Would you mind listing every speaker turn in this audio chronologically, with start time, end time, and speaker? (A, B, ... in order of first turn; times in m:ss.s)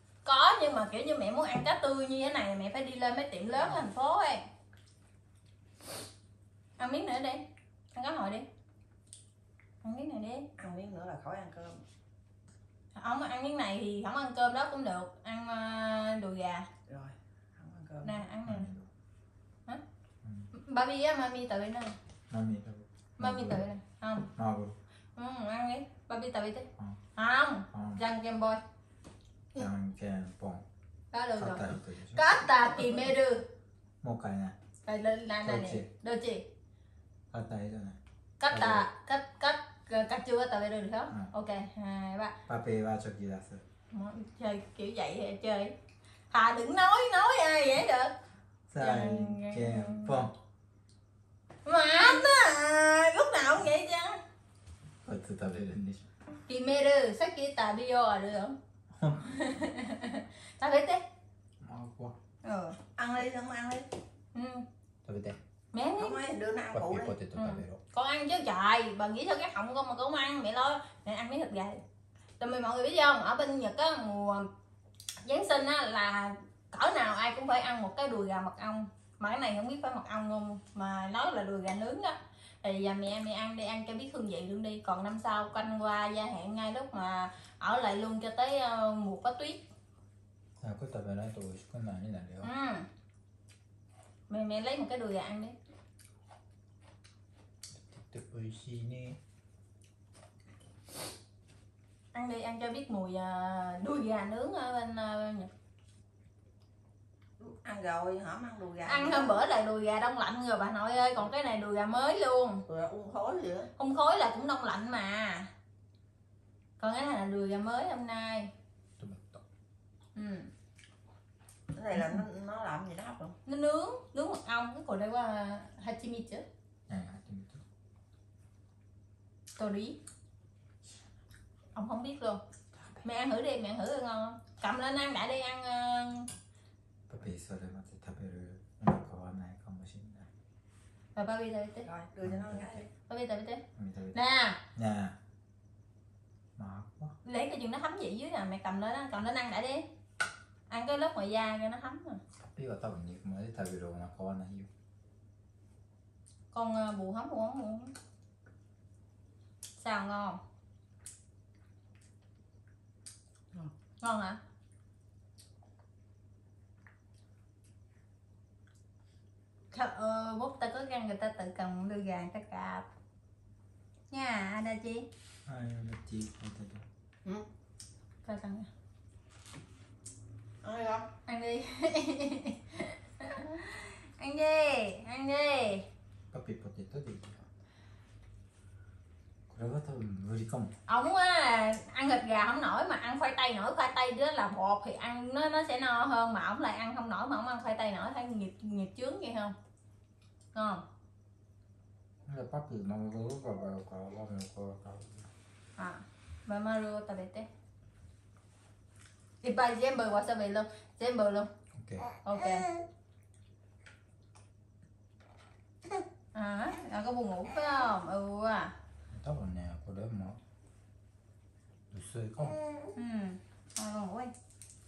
0:00.2-0:04.4 A
0:06.8-0:08.5 A
0:09.8-0:10.5 A
0:10.6-0:11.8 B
0:13.0-0:16.7 A
0:16.9-0:18.2 B
0:18.0-0:18.7 A
0:18.4-0:18.9 C
0:20.2-0:20.5 C
0:20.5-0:21.9 A
0:22.3-0:23.6 C
0:23.2-0:24.3 A
0:24.3-0:24.8 C
0:25.2-0:28.6 A
0:27.7-0:28.0 C
0:29.6-0:30.6 C
0:31.1-0:33.4 A
0:31.4-0:32.4 C
0:34.0-0:34.6 C
0:34.9-0:36.4 A
0:35.4-0:35.9 C
0:37.3-0:38.0 C
0:38.4-0:42.4 A
0:38.5-0:38.9 C
0:42.5-0:43.6 C
0:43.9-0:45.7 A
0:46.3-0:48.1 A
0:48.7-0:50.3 C
0:48.8-0:50.1 A
0:51.7-0:54.2 A
0:55.0-0:56.1 C
0:56.5-0:58.6 A
0:58.9-0:59.7 C
0:59.2-1:01.0 A
1:01.6-1:02.2 C
1:02.4-1:02.8 A
1:03.0-1:03.9 B
1:04.4-1:04.6 A
1:05.0-1:05.4 C
1:05.7-1:06.2 A
1:06.0-1:07.2 B
1:06.7-1:07.8 C
1:07.4-1:11.8 A
1:12.4-1:14.5 A
1:15.2-1:29.6 A
1:30.6-1:32.5 C
1:32.4-1:32.9 A
1:34.3-1:35.6 A
1:37.8-1:39.2 C
1:42.1-1:45.5 A
1:47.4-1:49.4 B
1:48.9-1:52.6 A
1:52.7-1:53.7 B
1:53.8-1:55.5 A
1:56.8-1:58.5 A
1:59.0-1:59.4 C
2:00.2-2:00.5 A
2:01.7-2:03.4 B
2:03.5-2:06.4 A
2:06.9-2:07.6 C
2:09.6-2:10.0 A
2:11.8-2:12.4 A
2:13.0-2:16.3 A
2:17.1-2:20.3 C
2:21.2-2:21.9 A
2:21.9-2:22.9 B
2:22.2-2:22.8 C
2:23.1-2:23.6 A
2:23.8-2:24.2 C
2:24.1-2:24.6 A
2:24.7-2:25.2 C
2:26.6-2:27.2 C
2:27.2-2:29.9 A
2:30.7-2:32.2 A
2:32.6-2:34.7 C
2:36.5-2:38.0 A
2:39.8-2:40.4 A
2:44.0-2:44.4 A
2:49.7-2:52.9 A
2:54.1-2:55.1 A
2:55.5-2:56.9 C
2:58.2-2:58.7 A
3:00.6-3:01.1 B
3:01.3-3:05.9 A
3:06.3-3:07.4 C
3:09.5-3:10.7 C
3:10.9-3:19.6 A
3:20.6-3:20.8 A
3:22.3-3:25.3 C
3:25.8-3:27.5 A
3:29.4-3:31.5 A
3:31.7-3:32.1 C
3:32.2-3:32.7 A
3:36.4-3:38.7 A
3:39.1-3:40.4 C
3:41.9-3:42.6 C
3:43.0-3:44.3 A